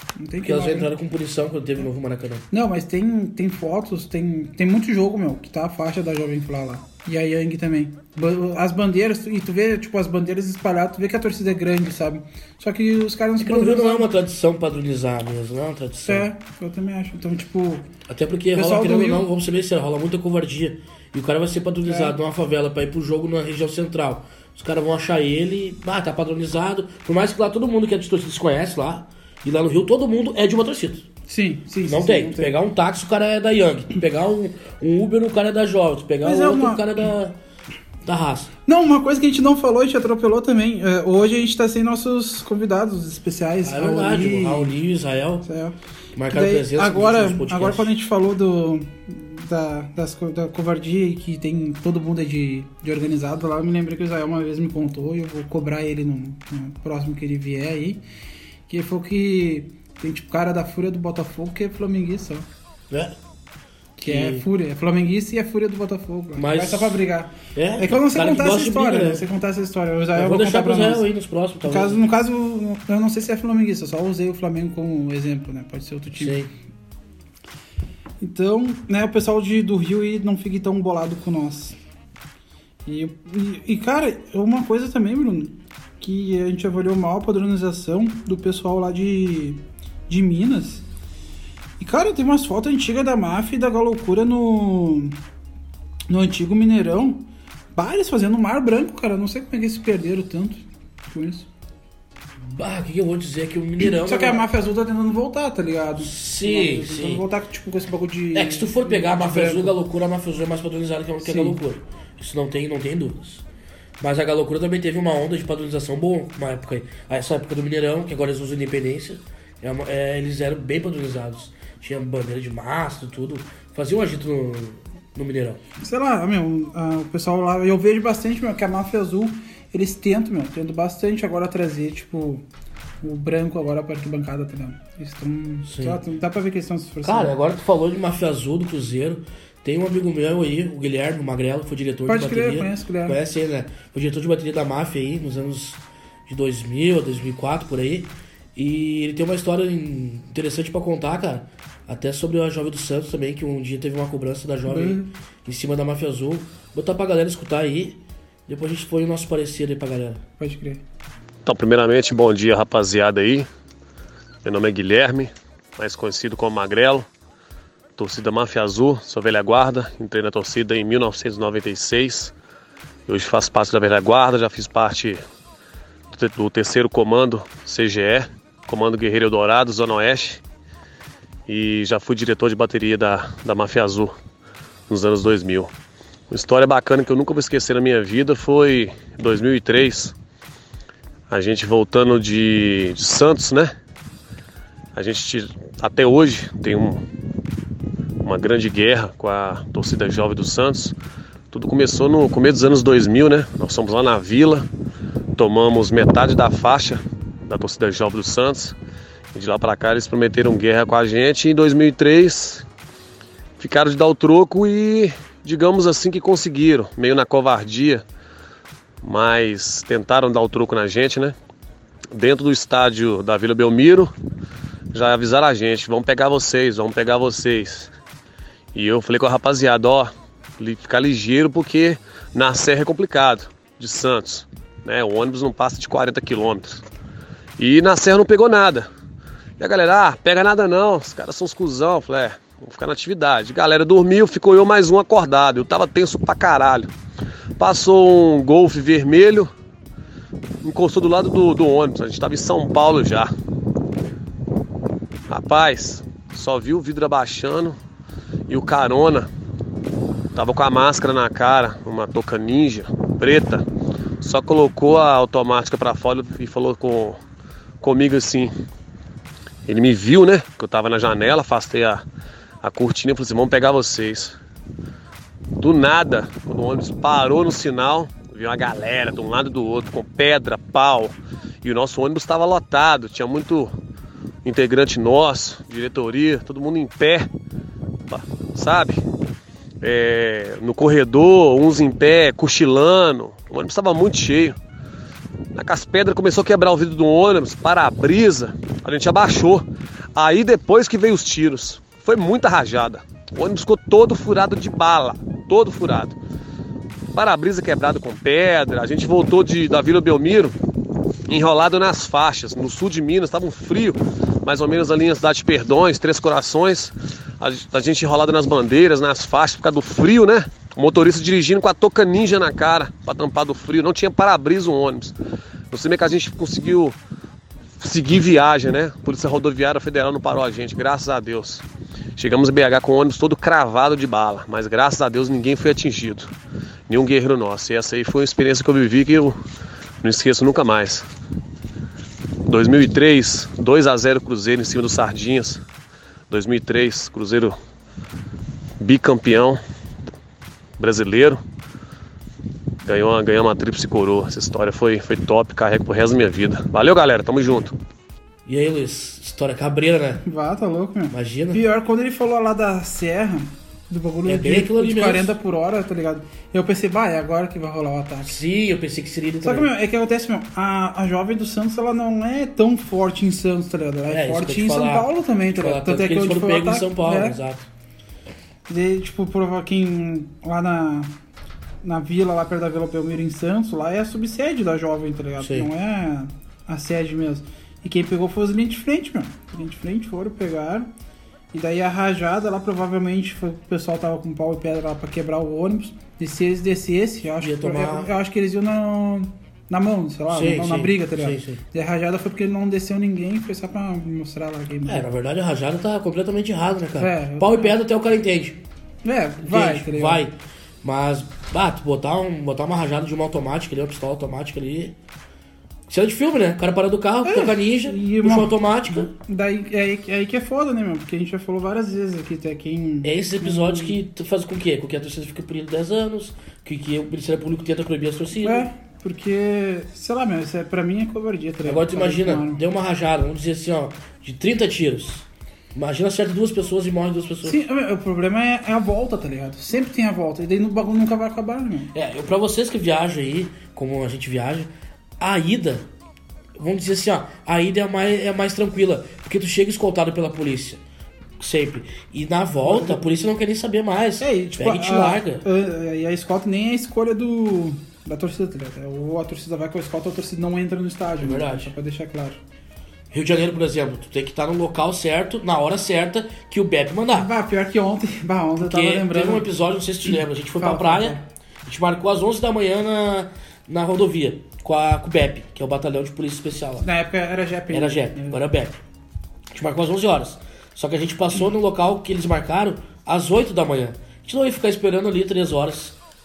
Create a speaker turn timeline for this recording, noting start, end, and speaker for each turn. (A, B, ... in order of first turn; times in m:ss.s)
0:00.2-0:00.9 A
0:00.4-0:02.4 B
0:02.5-0:14.1 A
0:13.4-0:16.3 B
0:16.0-0:17.9 A
0:18.1-0:31.1 B
0:18.6-0:19.3 A
0:21.9-0:22.2 A
0:31.3-0:32.6 A
0:31.8-0:37.4 B
0:36.2-0:37.1 A
0:38.0-0:38.5 B
0:38.7-0:44.8 A
0:43.6-0:45.5 B
0:45.4-0:45.8 A
0:46.2-0:47.9 B
0:46.3-0:58.0 A
0:58.7-1:02.5 A
1:02.9-1:03.2 B
1:04.0-1:11.1 A
1:04.0-1:04.4 B
1:06.4-1:07.0 B
1:07.6-1:09.3 B
1:10.2-1:12.0 B
1:11.6-1:16.4 A
1:16.2-1:16.5 B
1:18.2-1:21.8 A
1:22.9-1:30.9 A
1:31.8-1:35.2 A
1:36.1-1:41.5 A
1:42.4-1:44.4 B
1:43.8-1:49.8 A
1:46.0-1:47.2 B
1:48.3-1:53.4 B
1:51.2-1:51.6 A
1:54.0-2:05.6 B
2:05.8-2:12.4 A
2:13.0-2:17.4 A
2:15.7-2:16.0 B
2:17.0-2:40.2 B
2:22.1-2:23.2 A
2:34.7-2:35.1 A
2:40.4-2:40.8 A
2:41.4-2:43.5 C
2:44.4-2:47.1 C
2:48.0-2:52.3 C
2:53.1-2:55.2 C
2:56.1-3:00.4 C
3:01.5-3:04.1 C
3:04.9-3:05.7 C
3:06.3-3:10.2 C
3:11.3-3:13.7 C
3:15.0-3:17.0 C
3:18.2-3:21.0 C
3:21.5-3:24.7 C
3:25.4-3:28.8 C
3:29.3-3:32.7 C
3:33.6-3:38.0 C
3:39.0-3:41.4 C
3:42.1-3:44.1 C
3:44.9-3:47.9 C
3:48.8-3:56.8 C
3:57.6-3:58.9 C
3:59.6-4:06.9 C
4:07.6-4:09.5 C
4:10.6-4:13.3 C
4:15.3-4:17.8 C
4:18.5-4:19.3 C
4:20.3-4:23.7 C
4:24.2-4:27.2 C
4:27.8-4:28.5 C
4:29.7-4:32.0 C
4:32.6-4:34.4 C
4:35.6-4:43.7 C
4:44.4-4:47.3 C
4:48.1-4:49.0 C
4:49.8-4:54.6 C
4:55.5-5:06.2 C
5:07.1-5:10.6 C
5:11.3-5:25.1 C
5:25.7-5:27.0 C
5:27.8-5:31.6 C
5:32.2-5:36.3 C
5:36.9-5:39.4 C
5:40.0-5:41.1 C
5:42.5-5:45.6 C
5:46.3-5:47.6 C
5:48.8-5:49.6 C
5:50.8-5:51.4 C
5:52.8-5:57.8 C
5:58.5-6:00.2 B
6:00.2-6:08.4 A
6:01.1-6:01.6 B
6:04.3-6:05.4 B
6:08.2-6:09.7 B
6:09.4-6:17.4 A
6:14.1-6:17.7 B
6:18.7-6:21.1 A
6:21.8-6:30.9 A
6:25.4-6:25.7 B
6:31.5-6:45.1 A
6:37.4-6:38.1 B
6:40.3-6:41.6 B
6:44.9-6:48.6 B
6:47.0-6:47.8 A
6:49.0-6:50.2 A
6:49.4-6:55.0 B
6:55.9-6:59.1 B
6:57.2-7:04.0 A
7:03.0-7:08.7 B
7:08.4-7:12.6 A
7:11.6-7:17.6 B
7:17.4-7:21.9 A
7:21.9-7:25.9 B
7:26.6-7:30.8 B
7:31.4-7:35.4 B
7:32.6-7:33.0 A
7:34.2-7:42.4 A
7:41.2-7:41.7 B
7:43.1-7:47.3 B
7:47.1-7:49.5 A
7:48.6-7:56.8 B
7:50.0-7:51.2 A
7:56.8-7:58.4 A
7:57.7-7:58.8 B
7:59.5-8:06.0 B